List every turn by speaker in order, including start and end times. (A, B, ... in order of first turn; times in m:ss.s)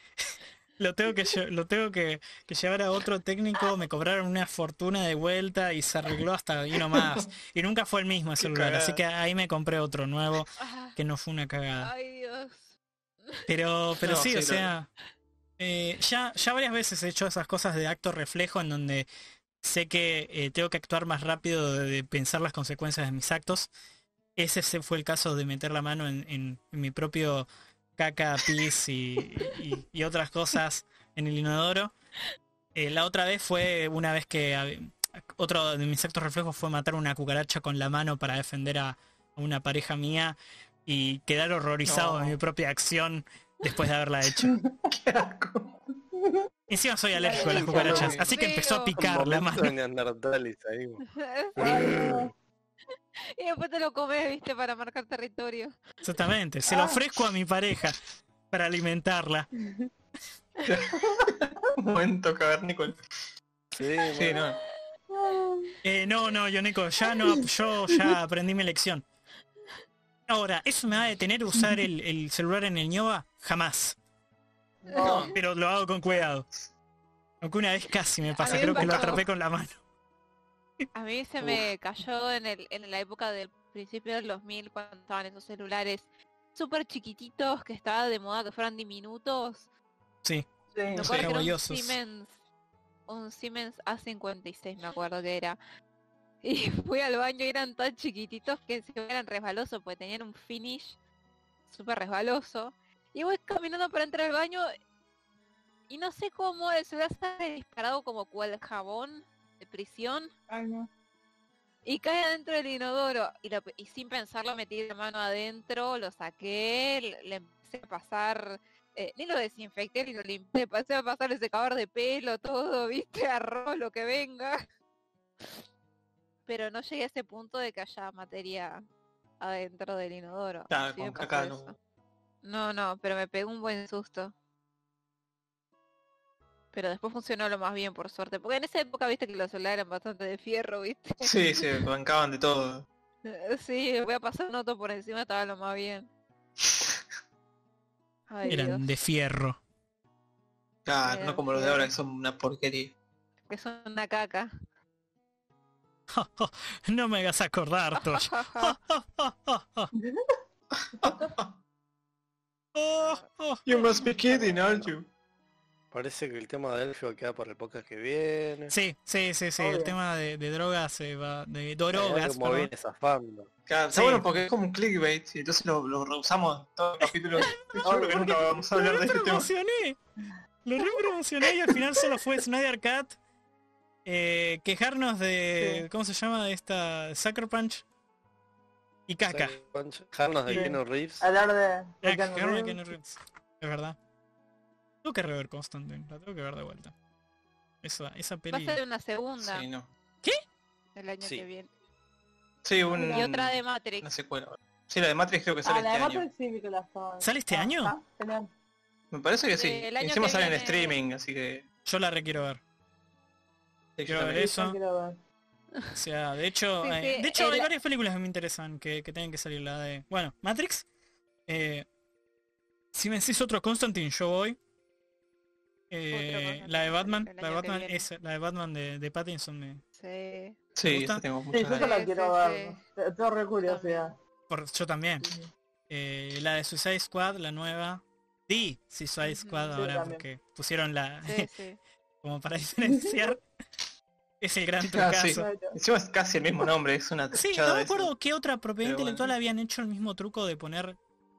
0:00.8-0:11.9 A
0:06.9-0:07.2 B
0:08.4-0:09.0 B
0:10.6-0:11.0 C
0:11.8-0:12.8 C
0:13.5-0:14.9 A
0:14.0-0:14.7 B
0:15.6-0:19.1 A
0:19.6-0:23.7 A
0:24.4-0:31.9 A
0:32.8-0:44.6 A
0:41.9-0:42.4 B
0:44.6-0:44.9 D
0:44.9-0:45.8 B
0:46.2-0:46.5 D
0:46.7-0:49.8 A
0:47.2-0:48.1 D
0:47.4-0:48.2 E
0:47.7-0:48.3 B
0:47.8-0:49.0 C
0:49.0-0:51.0 E
0:51.2-0:51.9 C
0:51.6-0:52.3 E
0:51.6-0:52.3 D
0:53.3-0:55.7 C
0:56.0-0:59.5 A
0:56.7-0:57.0 D
1:00.6-1:03.0 B
1:03.7-1:04.4 E
1:04.1-1:04.6 B
1:05.1-1:05.8 D
1:05.8-1:09.0 A
1:10.3-1:14.0 A
1:14.8-1:15.4 D
1:15.0-1:15.4 B
1:15.3-1:16.5 A
1:17.4-1:19.8 A
1:18.4-1:19.2 C
1:18.5-1:19.1 B
1:18.5-1:19.0 D
1:20.9-1:29.7 C
1:30.7-1:31.3 D
1:30.9-1:32.4 C
1:31.1-1:32.0 A
1:33.1-1:35.6 C
1:36.4-1:41.0 C
1:41.7-1:44.7 C
1:45.9-1:50.3 C
1:50.5-1:50.9 D
1:51.8-2:04.6 C
2:06.5-2:08.8 C
2:09.4-2:11.8 C
2:10.7-2:11.7 B
2:12.4-2:14.3 C
2:16.7-2:21.8 C
2:21.2-2:22.9 B
2:23.3-2:26.1 C
2:28.3-2:28.8 C
2:28.5-2:29.6 A
2:30.8-2:33.0 B
2:31.0-2:31.9 C
2:33.5-2:34.5 C
2:36.1-2:39.9 A
2:38.0-2:38.8 C
2:40.0-2:40.2 D
2:40.8-2:41.6 B
2:41.0-2:41.3 D
2:42.8-2:43.7 A
2:43.0-2:43.2 C
2:43.6-2:45.1 B
2:45.9-2:48.7 E
2:48.7-2:52.7 A
2:49.6-2:50.0 D
2:51.9-2:53.5 E
2:53.7-2:59.5 B
2:53.9-2:54.2 A
2:57.8-2:58.5 D
2:58.8-3:00.0 A
3:00.6-3:03.2 A
3:04.0-3:07.8 A
3:05.6-3:05.8 D
3:09.1-3:09.6 A
3:09.3-3:11.2 E
3:10.5-3:12.8 D
3:12.0-3:14.0 A
3:15.0-3:16.9 A
3:17.8-3:18.8 A
3:18.5-3:19.7 C
3:19.4-3:19.9 B
3:21.0-3:21.7 C
3:21.2-3:21.5 E
3:22.6-3:26.3 B
3:22.9-3:23.2 D
3:23.1-3:24.1 C
3:25.6-3:28.5 D
3:27.2-3:28.0 A
3:29.1-3:31.7 B
3:29.6-3:31.0 C
3:31.9-3:32.6 A
3:34.0-3:34.5 B
3:34.1-3:34.8 A
3:34.4-3:35.2 D
3:36.0-3:40.9 A
3:36.8-3:37.7 C
3:41.5-3:41.9 A
3:42.9-3:44.6 A
3:45.9-3:49.8 A
3:46.1-3:48.1 C
3:50.0-3:50.6 C
3:50.8-3:51.9 B
3:50.9-3:51.2 A
3:51.5-3:54.2 D
3:51.7-3:52.8 C
3:53.6-3:54.1 C
3:54.5-3:55.2 A
3:55.9-4:01.5 A
3:59.2-3:59.8 C
3:59.7-4:00.2 D
4:01.2-4:01.8 C
4:02.2-4:03.4 A
4:04.4-4:05.5 A
4:04.8-4:08.1 B
4:05.4-4:05.8 D
4:07.3-4:11.0 A
4:08.8-4:09.3 B